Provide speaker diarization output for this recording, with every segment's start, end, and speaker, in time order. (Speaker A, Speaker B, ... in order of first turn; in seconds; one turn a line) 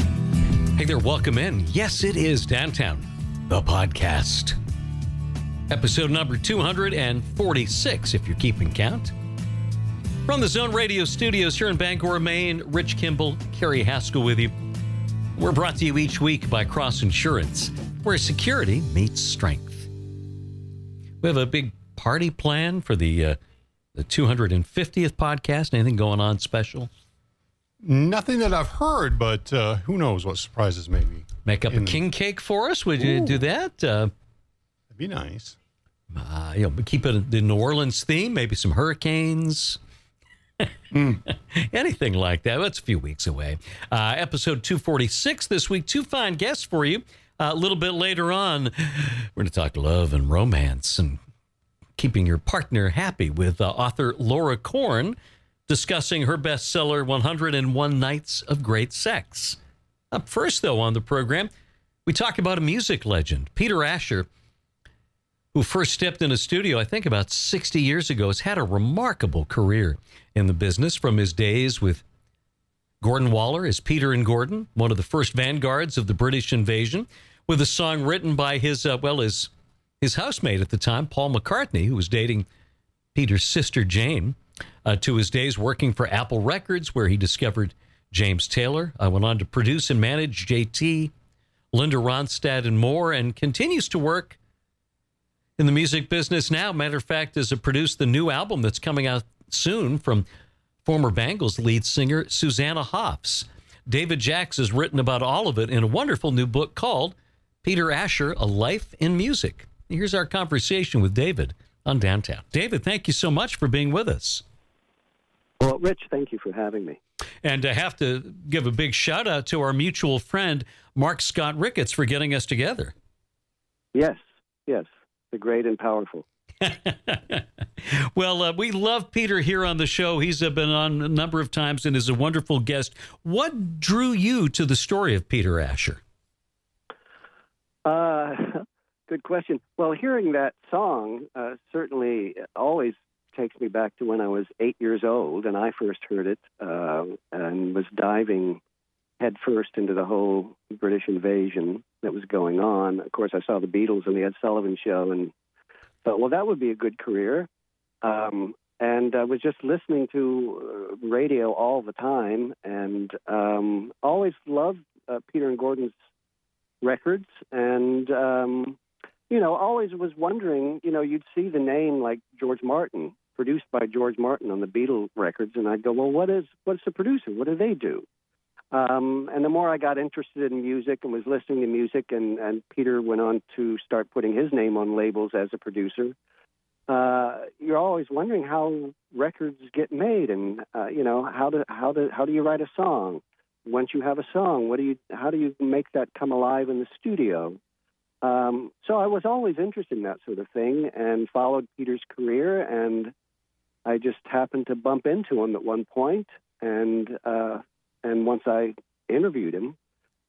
Speaker A: 0.8-4.6
Speaker A: 5.7-9.1
Speaker A: 10.3-14.5
Speaker A: 15.4-19.9
Speaker A: 21.2-23.4
Speaker A: 24.0-26.9
Speaker B: 27.8-32.0
Speaker A: 31.4-34.1
Speaker B: 34.9-35.6
Speaker A: 36.1-39.8
Speaker A: 41.3-51.2
Speaker A: 52.0-59.6
Speaker A: 60.1-61.5
Speaker A: 62.1-64.3
Speaker A: 65.5-72.0
Speaker A: 73.0-79.5
Speaker A: 80.0-82.5
Speaker A: 83.2-91.1
Speaker A: 91.7-94.4
Speaker A: 95.6-100.3
Speaker A: 100.8-114.4
Speaker C: 115.6-117.0
Speaker A: 117.4-122.9
Speaker C: 123.9-126.2
Speaker A: 126.6-136.0
Speaker C: 137.8-148.6
Speaker C: 149.2-155.3
Speaker C: 156.0-157.5
Speaker C: 158.0-165.9
Speaker C: 166.8-168.8
Speaker C: 169.3-178.1
Speaker C: 178.7-186.2
Speaker C: 186.9-197.6
Speaker C: 198.2-203.1
Speaker C: 203.8-209.8